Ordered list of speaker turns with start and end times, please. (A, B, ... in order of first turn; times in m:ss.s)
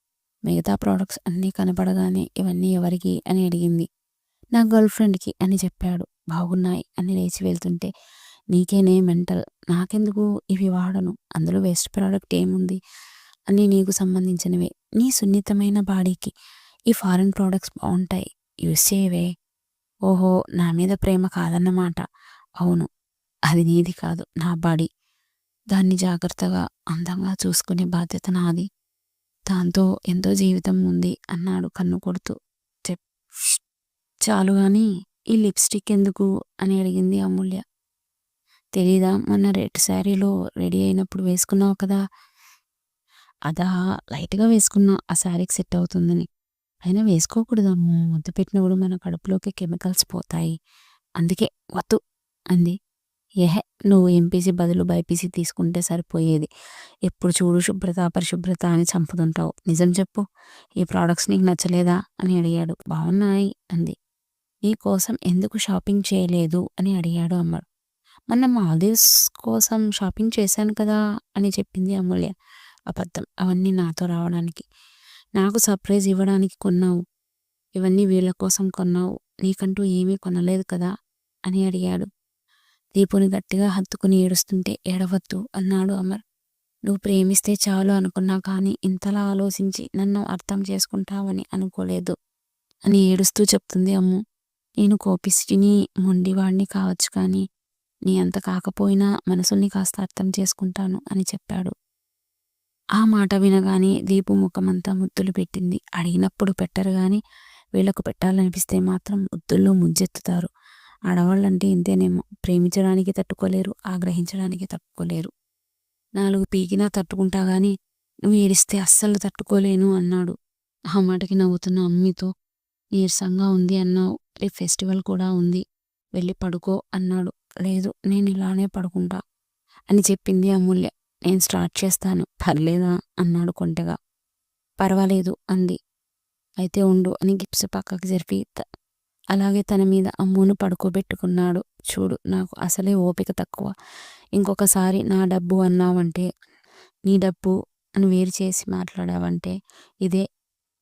0:00.5-0:03.9 A
0:04.6-0:07.9 A
0:08.5-0:12.8 A
0:13.5-0:16.3 A
0:16.9-0:19.3 A
0:20.1-0:22.0 A
0:22.6-0:22.9 A
0:23.5-0:24.9 A
0:25.7-0:28.7 A
0:29.5-0:32.4 A
0:34.3-0:37.6 A
0:38.8-0:42.0 A
0:43.5-0:46.3 A
0:46.8-0:50.6 A
0:51.2-0:52.0 A
0:53.4-0:56.5 A
0:57.1-1:00.2 A
1:00.8-1:04.0 A
1:04.7-1:07.6 A
1:08.3-1:12.3 A
1:12.9-1:14.7 A
1:15.4-1:17.0 A
1:17.8-1:20.9 A
1:21.5-1:22.1 A
1:23.0-1:26.2 A
1:26.9-1:32.2 A
1:32.9-1:34.2 A
1:34.8-1:37.4 A
1:38.1-1:41.7 A
1:43.0-1:47.2 A
1:47.8-1:50.5 A
1:51.1-1:55.3 A
1:56.2-1:57.7 A
1:58.3-2:00.4 A
2:00.9-2:02.3 A
2:03.0-2:05.6 A
2:06.2-2:09.2 A
2:09.9-2:14.0 A
2:14.8-2:15.8 A
2:16.6-2:18.6 A
2:19.3-2:23.7 A
2:24.4-2:26.3 A
2:27.1-2:30.2 A